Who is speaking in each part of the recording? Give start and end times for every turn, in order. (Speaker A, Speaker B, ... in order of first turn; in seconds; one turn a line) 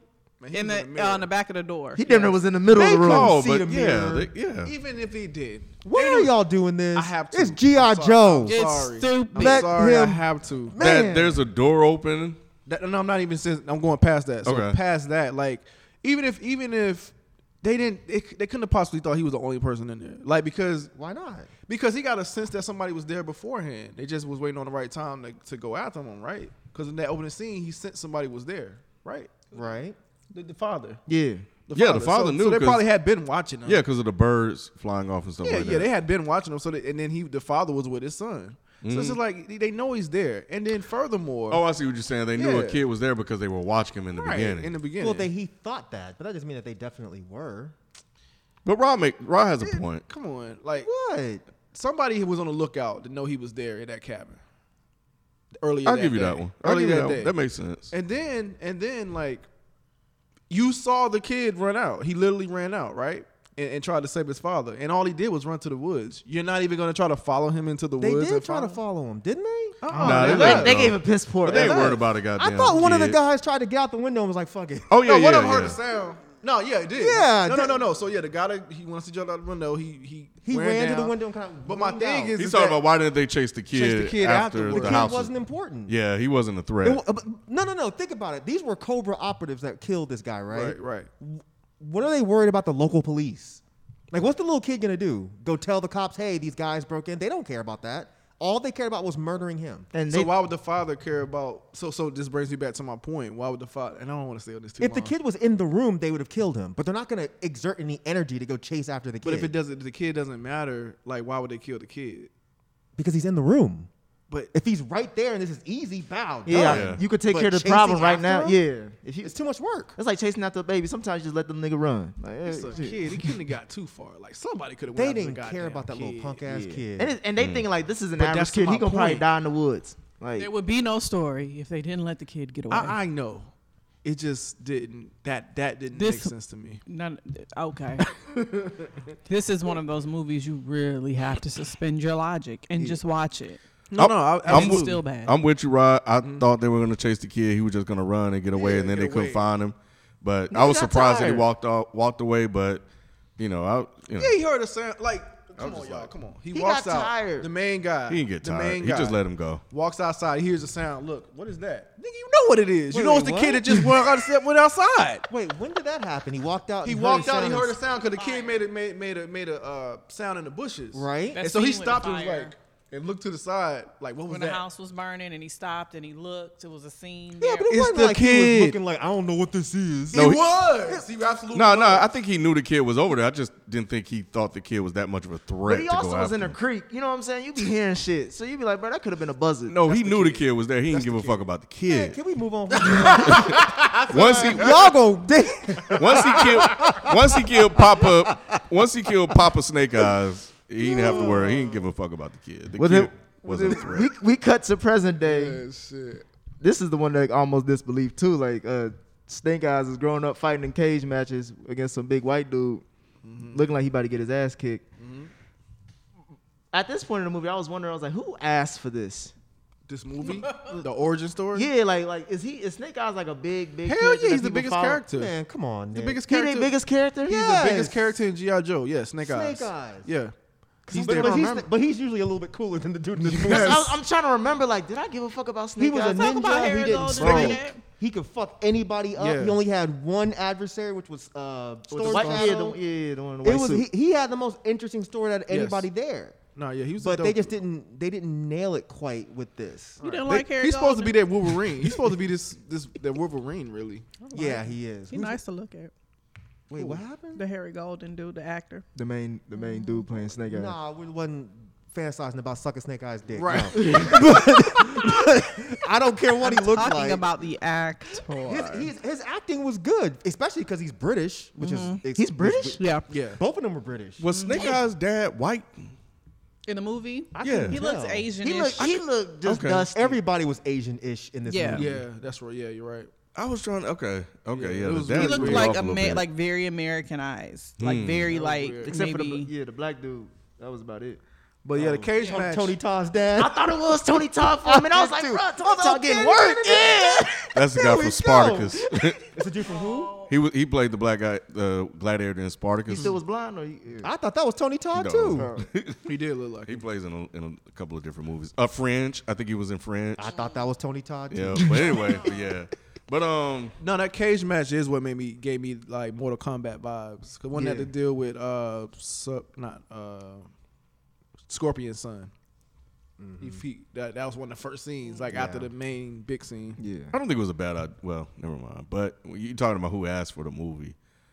Speaker A: 0.4-1.3
Speaker B: 0.5-2.4
Speaker C: 1.9-3.3
Speaker D: 2.7-4.3
Speaker E: 3.0-4.7
Speaker A: 4.6-6.3
Speaker D: 5.8-8.6
Speaker A: 6.9-10.8
Speaker B: 8.5-9.8
Speaker C: 9.3-9.7
Speaker D: 9.6-11.4
Speaker E: 10.8-12.4
Speaker A: 12.7-20.9
Speaker E: 14.4-14.8
Speaker D: 20.9-21.5
Speaker A: 21.7-29.6
Speaker D: 29.5-30.0
Speaker A: 30.3-31.0
Speaker C: 31.1-31.4
Speaker A: 31.7-33.8
Speaker E: 31.7-32.8
Speaker E: 33.6-35.9
Speaker A: 35.4-41.6
Speaker E: 38.8-39.2
Speaker E: 41.5-44.7
Speaker A: 42.3-42.8
Speaker A: 44.1-45.3
Speaker D: 45.0-47.8
Speaker E: 48.6-50.0
Speaker A: 49.6-50.9
Speaker D: 50.8-51.4
Speaker A: 51.7-54.4
Speaker A: 55.6-57.3
Speaker E: 55.8-57.9
Speaker A: 57.9-59.5
Speaker A: 60.5-68.8
Speaker D: 68.0-69.8
Speaker A: 69.8-70.9
Speaker C: 69.9-72.0
Speaker E: 70.0-73.2
Speaker A: 71.5-72.0
Speaker D: 72.3-74.9
Speaker E: 74.9-75.8
Speaker A: 75.0-82.8
Speaker D: 77.0-77.8
Speaker D: 80.4-82.4
Speaker E: 82.4-85.3
Speaker A: 83.7-85.2
Speaker D: 84.7-85.9
Speaker E: 85.9-87.0
Speaker D: 86.8-99.9
Speaker A: 90.5-91.1
Speaker C: 99.9-100.3
Speaker A: 100.1-105.1
Speaker D: 104.8-109.5
Speaker A: 109.2-112.3
Speaker D: 113.0-113.9
Speaker D: 114.5-118.6
Speaker C: 116.5-119.3
Speaker E: 116.6-117.0
Speaker D: 119.2-119.9
Speaker C: 120.0-123.3
Speaker A: 122.4-126.4
Speaker D: 124.9-127.1
Speaker C: 126.5-130.5
Speaker E: 127.4-127.7
Speaker A: 128.2-129.2
Speaker B: 130.3-133.0
Speaker A: 132.7-133.5
Speaker A: 134.0-136.8
Speaker B: 135.9-136.3
Speaker B: 136.8-138.1
Speaker A: 138.2-138.9
Speaker B: 139.3-143.6
Speaker A: 143.9-145.0
Speaker E: 144.0-152.8
Speaker B: 144.4-145.3
Speaker A: 146.2-146.4
Speaker A: 148.5-149.4
Speaker C: 150.5-151.4
Speaker E: 153.4-154.3
Speaker A: 154.2-165.2
Speaker E: 155.6-156.1
Speaker C: 156.5-157.5
Speaker E: 158.1-159.6
Speaker D: 162.9-163.8
Speaker D: 165.3-167.8
Speaker A: 166.8-174.6
Speaker B: 168.1-168.5
Speaker D: 170.9-171.4
Speaker B: 171.3-172.5
Speaker B: 174.3-177.7
Speaker D: 177.4-180.4
Speaker A: 177.7-178.8
Speaker A: 180.1-182.1
Speaker E: 180.1-180.5
Speaker E: 181.5-186.6
Speaker C: 185.6-190.4
Speaker E: 189.7-192.2
Speaker D: 190.9-198.6
Speaker A: 192.8-194.8
Speaker E: 193.2-194.9
Speaker A: 195.8-197.0
Speaker E: 195.9-204.1
Speaker D: 200.8-201.8
Speaker A: 201.0-201.7
Speaker C: 202.8-205.6
Speaker A: 205.2-206.2
Speaker C: 206.6-212.8
Speaker A: 213.2-213.6
Speaker C: 213.4-214.8
Speaker A: 215.0-215.3
Speaker C: 216.7-219.3
Speaker A: 219.9-221.7
Speaker C: 221.5-225.0
Speaker A: 223.8-225.3
Speaker D: 225.1-226.2
Speaker A: 225.9-226.7
Speaker C: 226.3-227.6
Speaker D: 227.3-228.2
Speaker A: 227.3-230.3
Speaker D: 229.2-230.1
Speaker C: 230.9-231.7
Speaker A: 230.9-231.5
Speaker D: 230.9-233.9
Speaker A: 233.2-233.9
Speaker C: 233.4-236.4
Speaker D: 235.8-242.8
Speaker B: 236.1-237.8
Speaker A: 237.2-237.6
Speaker A: 239.2-239.6
Speaker C: 241.9-243.9
Speaker A: 242.1-242.4
Speaker D: 243.4-246.4
Speaker A: 245.5-245.9
Speaker A: 246.5-247.5
Speaker D: 247.0-250.0
Speaker B: 250.0-251.5
Speaker A: 250.0-254.2
Speaker B: 254.2-255.9
Speaker D: 254.3-255.4
Speaker D: 256.7-257.4
Speaker B: 257.3-258.8
Speaker C: 258.9-260.8
Speaker B: 259.7-260.0
Speaker D: 260.5-267.2
Speaker A: 263.3-263.9
Speaker C: 263.8-264.9
Speaker B: 266.4-268.9
Speaker D: 268.3-274.2
Speaker B: 271.6-272.0
Speaker C: 272.1-272.8
Speaker B: 272.8-273.1
Speaker A: 273.1-273.4
Speaker E: 274.2-275.8
Speaker B: 274.3-274.8
Speaker B: 276.6-279.0
Speaker D: 277.3-278.3
Speaker E: 277.4-277.8
Speaker C: 278.4-280.2
Speaker E: 279.4-279.9
Speaker D: 279.8-282.0
Speaker B: 281.4-281.8
Speaker A: 281.7-283.1
Speaker E: 283.3-286.2
Speaker A: 284.5-285.8
Speaker B: 285.1-289.5
Speaker E: 287.8-288.3
Speaker A: 288.3-288.9
Speaker C: 288.8-291.2
Speaker A: 291.6-292.8
Speaker D: 291.8-293.7
Speaker C: 293.4-297.6
Speaker D: 294.6-300.2
Speaker E: 297.5-299.3
Speaker B: 299.7-300.3
Speaker E: 300.3-303.2
Speaker C: 302.9-304.1
Speaker D: 304.0-305.5
Speaker E: 304.9-306.1
Speaker C: 305.4-305.6
Speaker A: 306.0-306.8
Speaker E: 306.7-310.3
Speaker D: 310.2-312.3
Speaker E: 311.3-313.8
Speaker A: 313.8-320.5
Speaker C: 317.5-317.9
Speaker A: 321.5-322.3
Speaker D: 323.2-323.6
Speaker A: 323.4-326.8
Speaker C: 326.8-327.1
Speaker E: 327.1-330.9